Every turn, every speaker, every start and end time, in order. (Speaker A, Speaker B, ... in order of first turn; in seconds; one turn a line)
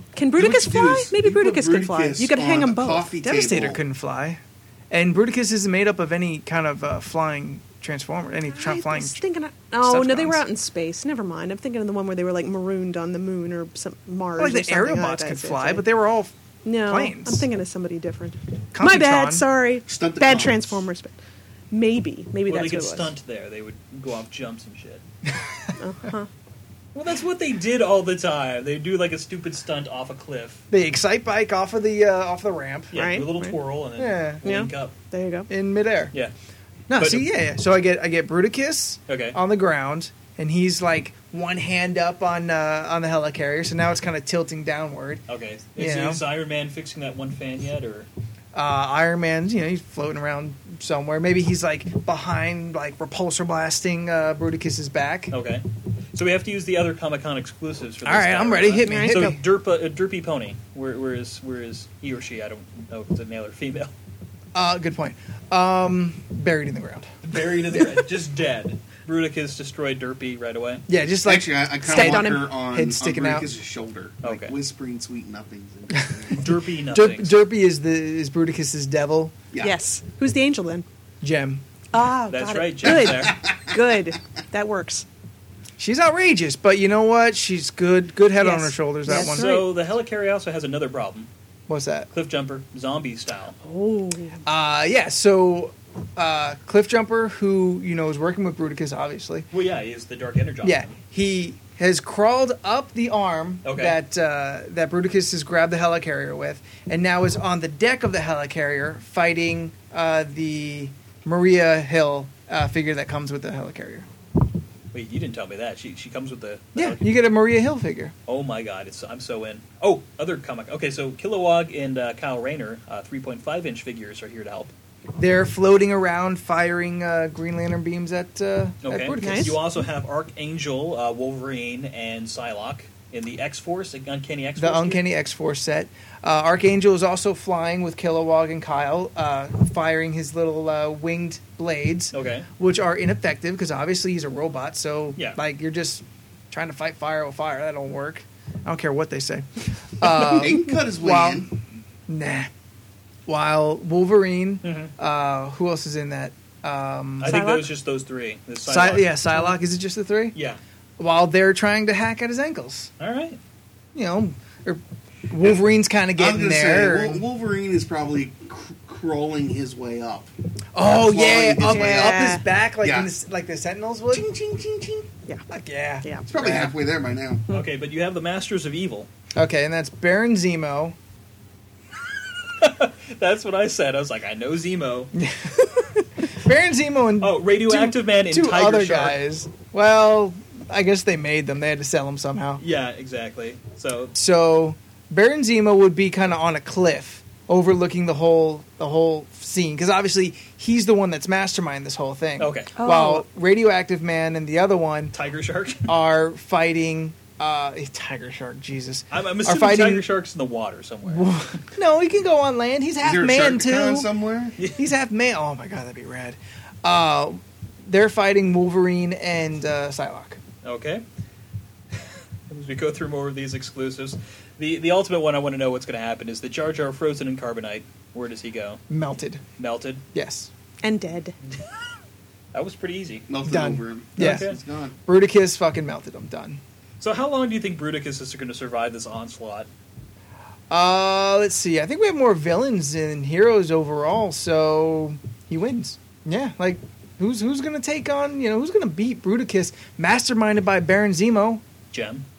Speaker A: 0.1-3.4
Speaker B: 0.4-3.8
Speaker C: 3.3-9.2
Speaker A: 8.5-15.8
Speaker C: 9.8-10.4
Speaker C: 14.4-17.5
Speaker A: 16.6-21.1
Speaker C: 18.7-19.4
Speaker B: 19.9-20.9
Speaker A: 21.7-23.1
Speaker D: 22.5-25.0
Speaker C: 25.3-25.7
Speaker A: 25.8-26.3
Speaker D: 26.9-30.6
Speaker C: 30.7-32.9
Speaker D: 32.9-34.9
Speaker A: 32.9-33.5
Speaker C: 34.0-34.4
Speaker A: 34.4-35.5
Speaker C: 35.5-36.1
Speaker C: 36.9-45.2
Speaker D: 37.0-37.3
Speaker D: 39.1-39.4
Speaker D: 45.3-48.1
Speaker C: 45.8-46.2
Speaker C: 48.5-55.3
Speaker D: 55.3-63.9
Speaker C: 58.0-59.4
Speaker A: 58.8-59.3
Speaker C: 64.5-67.1
Speaker D: 67.2-70.8
Speaker C: 67.7-68.0
Speaker C: 70.9-73.5
Speaker B: 71.2-76.4
Speaker A: 71.8-72.5
Speaker D: 74.2-74.5
Speaker C: 75.9-79.3
Speaker D: 76.3-77.3
Speaker A: 79.6-80.8
Speaker C: 81.2-81.6
Speaker A: 81.9-85.0
Speaker D: 82.3-83.4
Speaker B: 82.8-83.8
Speaker C: 85.8-89.6
Speaker A: 88.3-89.6
Speaker D: 89.1-91.3
Speaker C: 91.7-92.1
Speaker D: 92.1-93.6
Speaker A: 93.6-94.4
Speaker C: 94.4-99.5
Speaker D: 99.5-100.9
Speaker C: 100.6-114.1
Speaker D: 103.6-104.0
Speaker D: 114.9-117.1
Speaker C: 116.8-118.1
Speaker D: 118.3-124.7
Speaker C: 125.2-129.6
Speaker D: 128.8-135.0
Speaker A: 129.2-129.6
Speaker C: 134.6-151.5
Speaker D: 142.1-142.5
Speaker B: 150.2-151.5
Speaker C: 152.1-152.5
Speaker C: 153.3-157.4
Speaker D: 154.6-154.9
Speaker D: 157.2-159.2
Speaker A: 157.2-157.7
Speaker C: 158.7-160.3
Speaker D: 160.3-160.6
Speaker C: 161.0-162.9
Speaker D: 163.0-163.4
Speaker C: 163.9-167.2
Speaker B: 166.2-173.1
Speaker C: 170.7-174.3
Speaker A: 171.6-172.4
Speaker B: 174.1-175.1
Speaker C: 175.5-176.7
Speaker B: 176.3-177.5
Speaker D: 177.5-179.1
Speaker C: 179.3-180.9
Speaker D: 182.6-185.1
Speaker C: 185.1-192.6
Speaker D: 187.2-189.2
Speaker D: 192.6-194.1
Speaker C: 194.1-205.1
Speaker D: 202.4-202.7
Speaker A: 202.8-203.2
Speaker D: 205.1-205.9
Speaker C: 205.9-210.1
Speaker D: 209.1-211.6
Speaker C: 211.1-214.1
Speaker B: 213.0-214.6
Speaker C: 214.7-220.4
Speaker D: 220.6-221.0
Speaker D: 222.5-228.8
Speaker C: 228.9-229.4
Speaker D: 229.6-230.0
Speaker C: 230.1-230.5
Speaker A: 230.8-231.3
Speaker D: 232.5-233.2
Speaker B: 233.3-234.9
Speaker C: 233.4-234.5
Speaker D: 234.2-234.6
Speaker C: 235.0-236.6
Speaker D: 237.0-239.7
Speaker C: 240.7-251.6
Speaker D: 251.9-252.2